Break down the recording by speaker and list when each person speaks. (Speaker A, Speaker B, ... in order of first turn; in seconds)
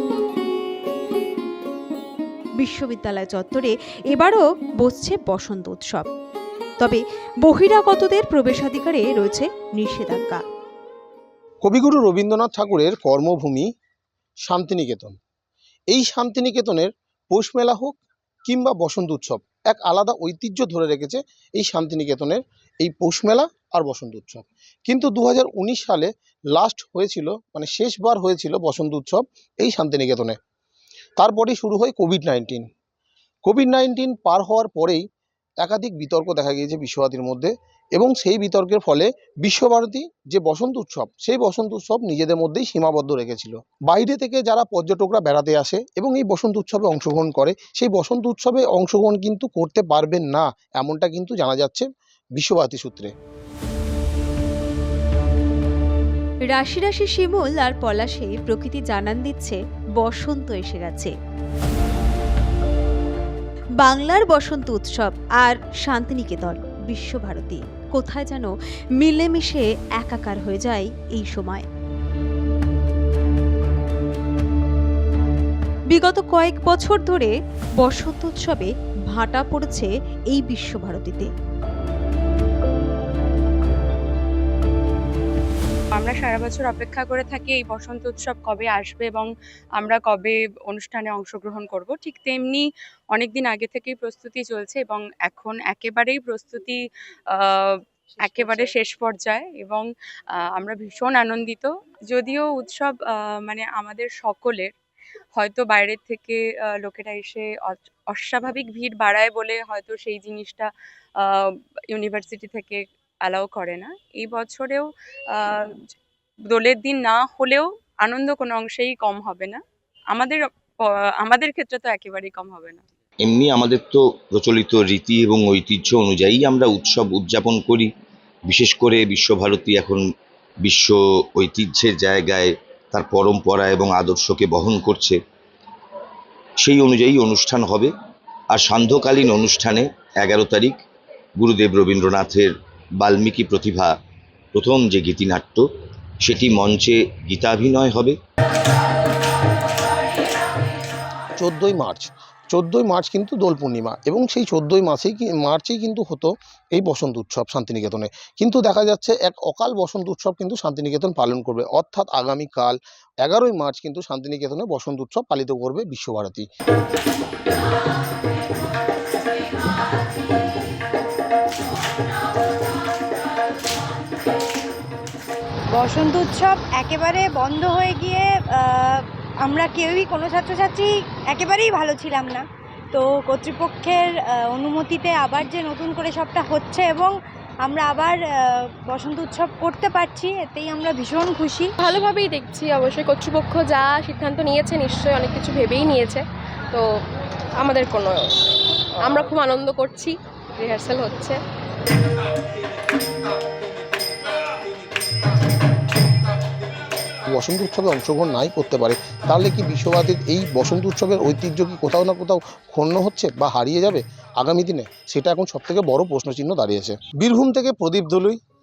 Speaker A: 2.6-6.1, 6.8-10.4, 56.5-61.1, 63.8-71.7, 75.9-81.3
Speaker B: 11.6-13.7, 14.4-15.2, 15.9-30.4, 31.2-32.7, 33.5-35.0, 35.6-53.1, 151.4-166.4, 207.3-218.4
Speaker C: 86.0-96.8, 97.3-99.9, 100.5-104.7, 105.4-115.8, 116.5-119.6, 120.1-122.8
Speaker D: 123.2-127.9, 128.5-130.0, 130.6-135.2, 136.6-137.9, 138.5-140.8, 141.4-143.9, 144.5-145.7, 146.2-148.2
Speaker E: 175.7-191.7
Speaker F: 191.8-196.8, 197.6-198.4, 199.0-201.4